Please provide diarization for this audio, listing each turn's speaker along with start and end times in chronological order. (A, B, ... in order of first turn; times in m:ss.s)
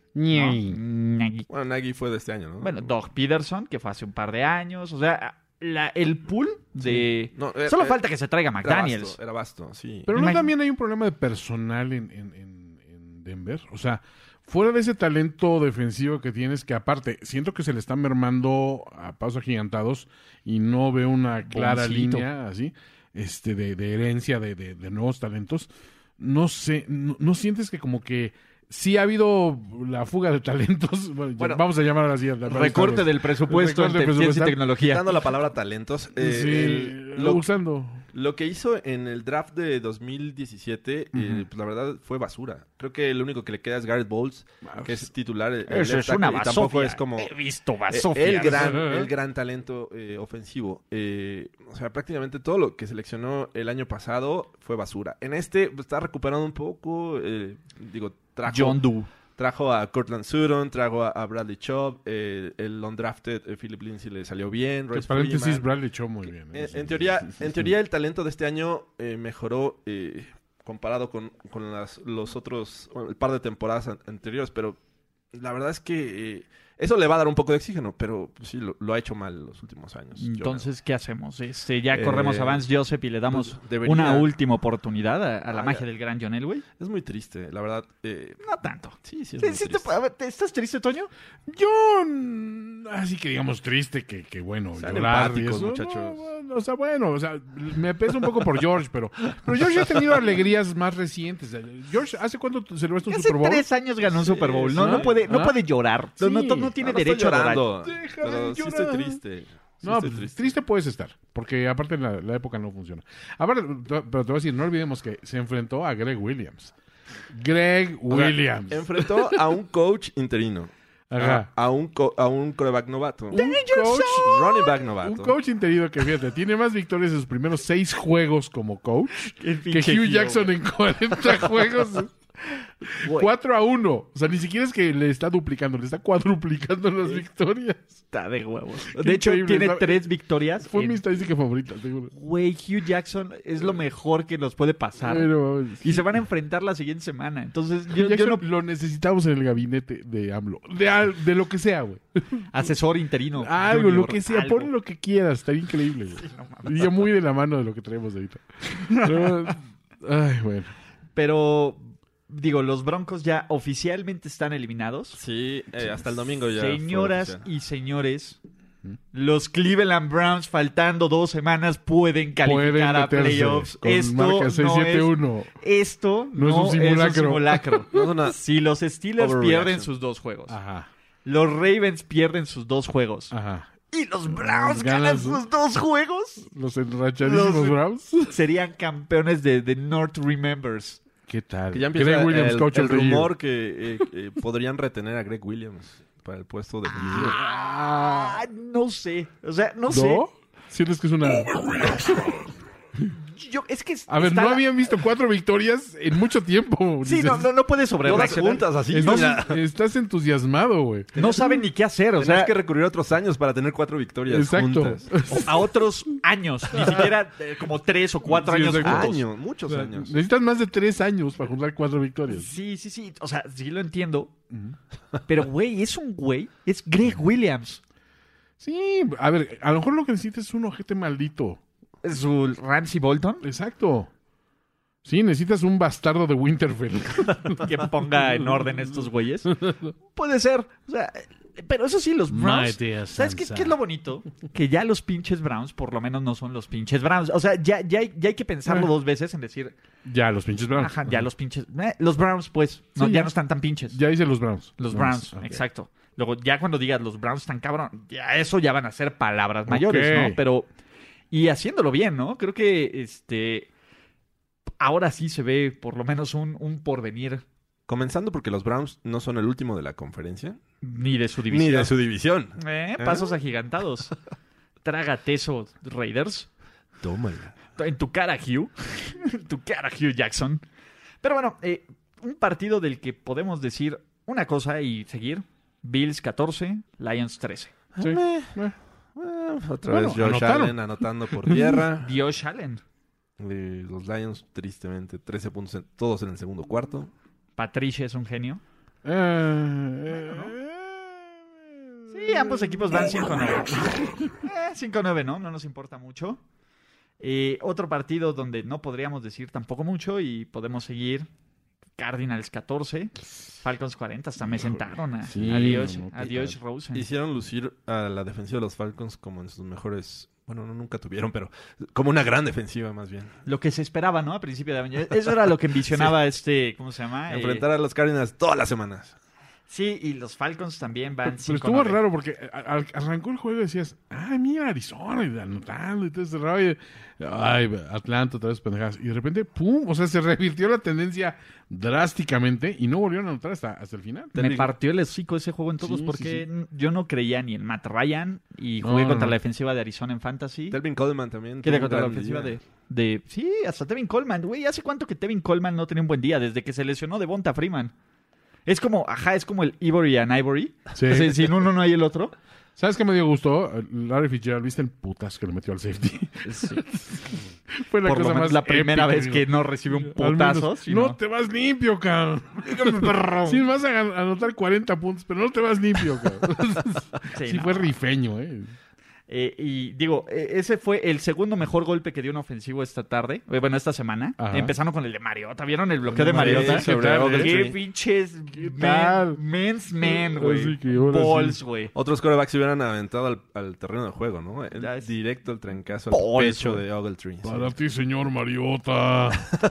0:00.2-0:00.8 A
0:00.3-0:01.5 B
0:01.5-0:02.9 C
0:02.6-0:09.2 B
0:07.3-0:08.0 C
0:08.6-0:10.2 C
0:10.1-0:34.6 A
0:10.2-0:10.5 B
0:21.5-0:22.3 B
0:31.4-0:31.6 C
0:32.5-0:35.1 B
0:34.8-0:37.5 C
0:36.2-0:38.0 A
0:38.1-0:47.3 C
0:41.1-0:41.5 A
0:44.7-0:45.1 A
0:45.7-0:48.8 B
0:47.9-1:05.7 C
0:48.6-0:49.1 A
0:58.5-0:59.1 B
1:04.9-1:07.2 A
1:06.5-1:14.8 C
1:15.3-1:20.7 C
1:20.2-1:26.6 B
1:21.9-1:22.7 C
1:23.3-1:24.3 C
1:25.5-1:25.8 C
1:26.8-1:28.4 C
1:28.4-1:31.1 B
1:29.0-1:29.9 C
1:31.5-1:43.7 A
1:34.8-1:36.3 C
1:39.8-1:40.1 C
1:43.1-1:47.7 B
1:44.1-1:45.2 C
1:44.7-1:45.6 A
1:46.2-1:46.7 A
1:46.8-1:50.5 C
1:47.8-1:49.2 A
1:49.8-1:56.7 A
1:57.3-1:59.4 A
1:58.1-2:03.4 C
2:01.1-2:01.5 A
2:03.3-2:04.7 B
2:03.3-2:04.4 A
2:04.1-2:05.4 C
2:05.0-2:12.1 A
2:09.4-2:10.5 B
2:12.9-2:18.0 A
2:13.0-2:13.3 B
2:18.1-2:21.0 B
2:18.9-2:20.1 A
2:20.6-2:22.1 A
2:22.1-2:28.4 B
2:25.0-2:26.1 A
2:27.9-2:32.5 A
2:32.5-2:34.7 B
2:33.4-2:40.7 A
2:36.2-2:37.0 B
2:38.8-2:39.3 B
2:41.2-2:45.2 B
2:45.2-2:47.5 C
2:46.6-2:48.4 B
2:49.1-3:00.6 B
2:52.4-2:55.5 A
2:56.4-2:58.0 A
2:57.9-2:58.4 C
2:59.2-2:59.9 C
3:00.5-3:00.9 A
3:01.2-3:03.3 B
3:03.3-3:03.7 A
3:03.9-3:06.5 B
3:04.3-3:05.4 A
3:06.4-3:08.4 A
3:07.2-3:11.0 B
3:11.3-3:13.3 A
3:11.7-3:17.4 C
3:17.0-3:20.2 B
3:17.0-3:18.4 A
3:19.9-3:23.1 A
3:23.2-3:24.6 B
3:24.1-3:27.5 A
3:27.0-3:29.4 B
3:28.0-3:29.6 C
3:28.9-3:31.1 A
3:31.1-3:31.6 C
3:31.2-3:32.5 B
3:32.2-3:35.2 C
3:34.3-3:35.7 A
3:35.3-3:39.2 B
3:38.3-3:39.2 A
3:38.8-3:40.2 C
3:39.7-3:42.5 A
3:42.3-3:44.3 B
3:44.5-3:44.8 A
3:45.3-3:47.8 B
3:48.6-3:51.6 A
3:52.0-3:53.4 B
3:53.4-3:54.1 A
3:55.0-3:57.8 A
3:57.6-4:09.8 B
3:59.5-3:59.9 A
4:02.3-4:03.8 A
4:10.0-4:11.3 A
4:10.8-4:14.0 B
4:13.0-4:13.3 A
4:13.9-4:15.6 A
4:14.8-4:20.7 B
4:19.7-4:20.4 A
4:21.3-4:23.7 B
4:24.8-4:27.4 B
4:27.9-4:30.6 C
4:30.8-4:31.9 B
4:31.5-4:33.4 C
4:32.6-4:34.1 B
4:34.8-4:36.5 B
4:37.0-4:37.6 C
4:37.8-4:40.6 B
4:41.2-4:47.7 B
4:48.0-4:48.6 C
4:48.0-4:48.8 A
4:49.2-4:52.2 C
4:49.9-4:51.8 A
4:52.0-4:52.8 B
4:53.4-4:57.1 C
4:57.6-4:58.6 B
4:59.0-5:02.8 A
5:00.1-5:00.5 B
5:02.1-5:06.4 B
5:07.2-5:11.3 B
5:12.0-5:17.1 B
5:15.2-5:16.6 A
5:16.9-5:23.4 C
5:23.4-5:27.6 B
5:27.3-5:29.2 C
5:29.7-5:32.0 B
5:31.3-5:44.3 A
5:44.4-5:44.7 C
5:44.4-5:50.8 B
5:45.8-5:46.5 A
5:48.8-5:49.4 A
5:50.7-5:52.6 C
5:51.6-5:57.9 B
5:58.7-6:02.3 B
6:01.0-6:01.5 A
6:02.8-6:18.7 A
6:06.4-6:06.8 B
6:08.0-6:11.2 B
6:12.6-6:13.6 B
6:17.3-6:17.9 B
6:19.3-6:31.9 B
6:24.4-6:24.8 A
6:26.1-6:27.6 A
6:26.3-6:27.8 C
6:28.6-6:29.4 A
6:30.0-6:31.6 A
6:31.9-6:37.7 C
6:34.8-6:35.1 B
6:36.1-6:36.8 B
6:37.4-6:39.6 A